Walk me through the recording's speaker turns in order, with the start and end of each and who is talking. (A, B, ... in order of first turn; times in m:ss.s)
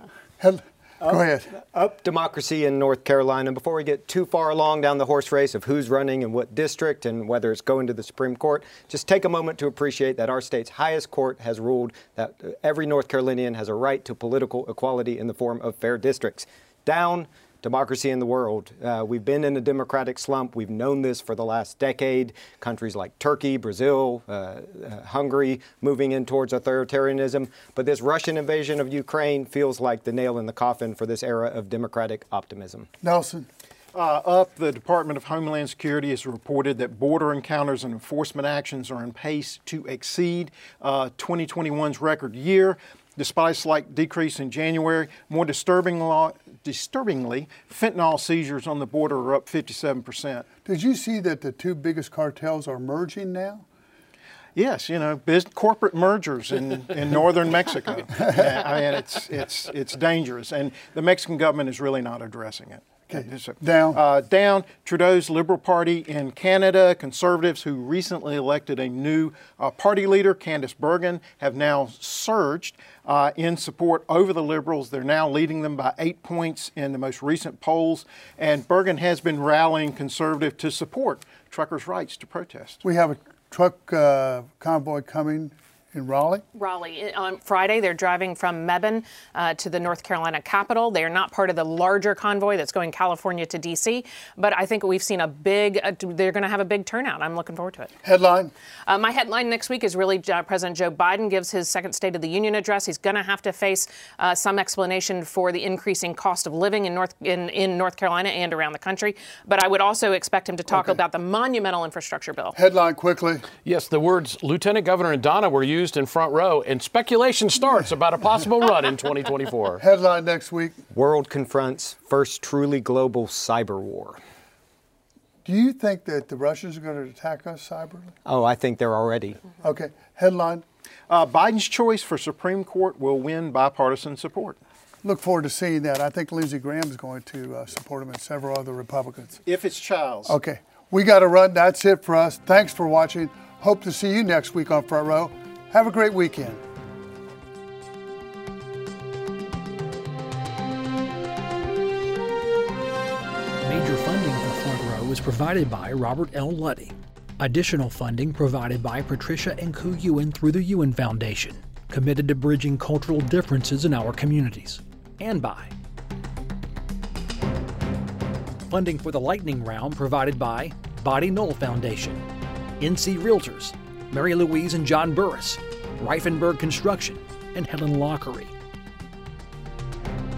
0:00.4-0:01.5 A
0:01.0-0:32.9 B
0:33.0-0:33.5 A
0:33.9-0:50.5 C
0:50.6-0:53.6 A
0:54.6-1:22.8 C
1:03.1-1:04.0 A
1:22.8-1:26.4 A
1:26.5-1:37.9 D
1:38.0-1:38.5 A
1:38.8-1:52.5 D
1:52.5-1:53.4 A
1:53.6-1:59.8 E
1:59.8-2:00.8 A
2:00.9-2:04.2 B
2:05.4-2:08.1 A
2:08.2-2:09.4 B
2:09.6-2:10.6 A
2:11.1-2:14.6 C
2:15.0-2:19.4 A
2:19.4-2:20.4 C
2:20.2-2:26.6 A
2:33.6-2:45.7 F
2:48.7-2:52.2 F
2:52.8-2:58.5 F